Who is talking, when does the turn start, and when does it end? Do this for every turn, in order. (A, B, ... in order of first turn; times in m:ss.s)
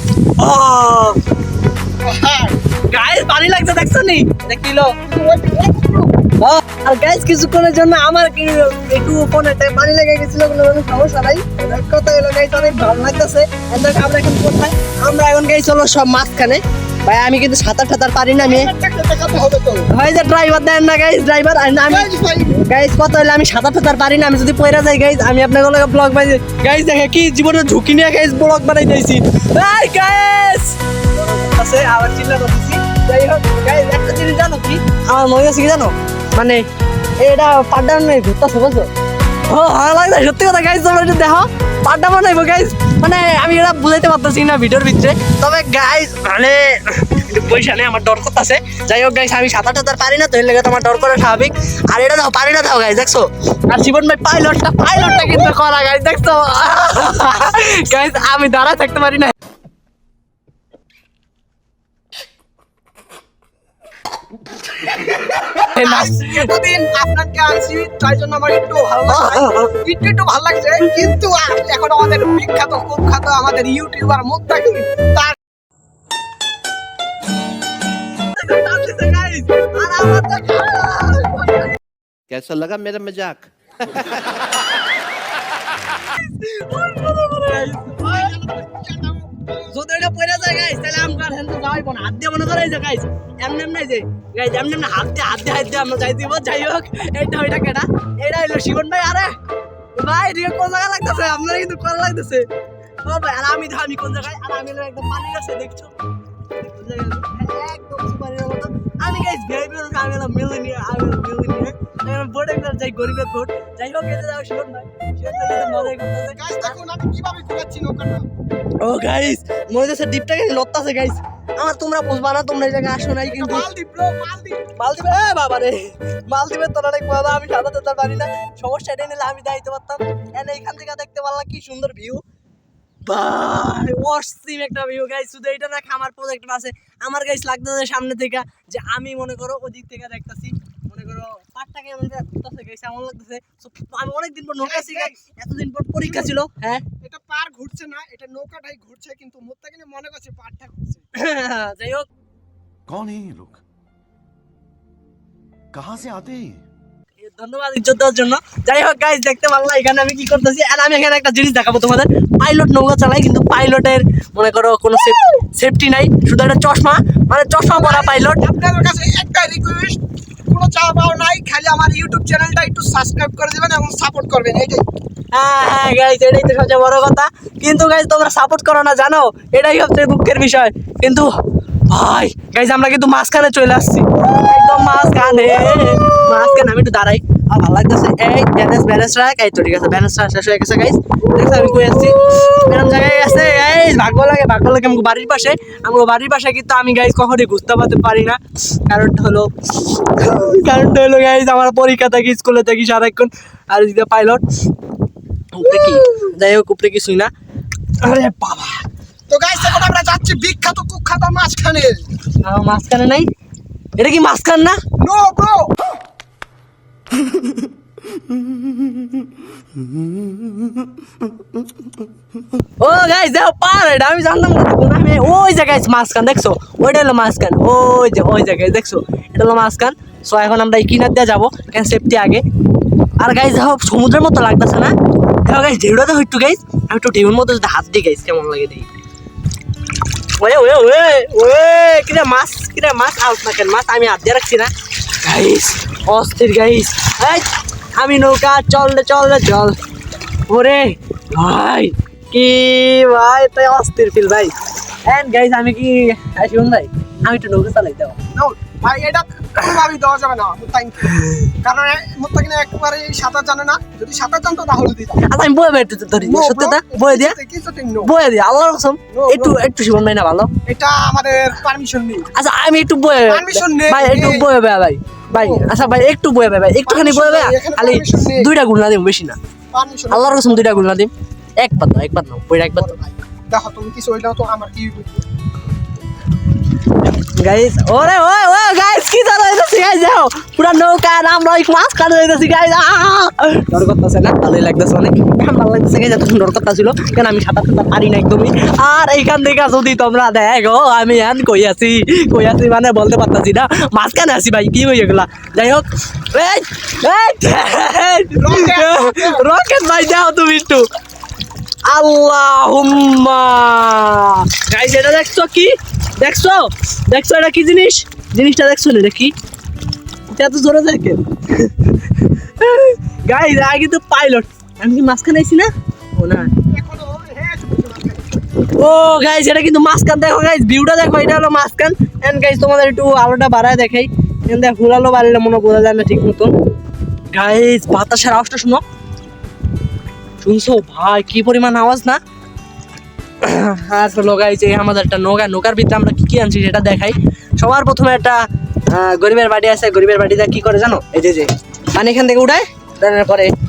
0:00.2-0:01.2 A
0:02.0-0:02.6 B
0:02.9-0:04.9 A
0:05.0-0:06.2 B
0:06.4-0:18.7 A
0:18.3-0:19.9 B
0:19.9-0:22.1 A
0:21.9-0:22.6 B
0:22.6-0:36.6 A
0:37.2-0:38.9 A
0:39.4-0:59.3 A
1:05.6-1:06.5 A
1:05.6-1:15.4 B
1:09.1-1:09.7 A
1:18.2-1:21.8 A
1:22.3-1:24.3 C
1:25.8-1:28.4 A
1:28.0-1:29.7 B
1:29.7-1:39.4 A
1:39.9-1:42.5 A
1:43.0-1:45.9 A
1:46.6-1:56.8 A
1:55.4-1:58.3 B
1:58.8-2:03.7 A
2:03.3-2:04.6 B
2:04.8-2:12.2 A
2:13.1-2:26.8 A
2:24.6-2:25.2 B
2:26.0-2:26.4 B
2:27.0-2:31.0 B
2:31.2-2:32.1 A
2:32.9-2:33.6 C
2:35.7-2:36.6 C
2:37.2-2:48.4 A
2:47.7-2:54.8 B
2:55.3-3:01.3 A
3:01.9-3:24.4 A
3:25.5-3:27.3 A
3:28.0-3:28.8 A
3:29.3-3:32.0 B
3:32.4-3:33.3 A
3:34.0-3:34.8 A
3:35.0-3:35.7 B
3:42.8-3:52.4 A
3:53.2-3:58.9 A
4:00.4-4:09.8 A
4:10.5-4:14.5 A
4:15.0-4:18.2 A
4:18.3-4:25.2 B
4:21.1-4:21.5 A
4:25.2-4:27.4 A
4:26.2-4:28.1 B
4:28.0-4:30.5 A
4:29.1-4:29.6 B
4:30.6-4:32.3 B
4:32.4-4:39.4 A
4:33.3-4:34.5 B
4:35.3-4:36.0 B
4:36.8-4:38.5 B
4:39.7-4:40.8 B
4:40.1-4:43.0 A
4:42.8-4:45.2 B
4:47.2-5:10.9 A
5:08.4-5:09.5 B
5:11.9-5:19.3 A
5:20.3-5:21.7 A
5:22.2-5:26.5 A
5:26.7-5:28.4 B
5:28.7-5:36.5 A
5:37.3-5:38.8 A
5:40.4-5:42.2 A
5:43.4-5:53.5 A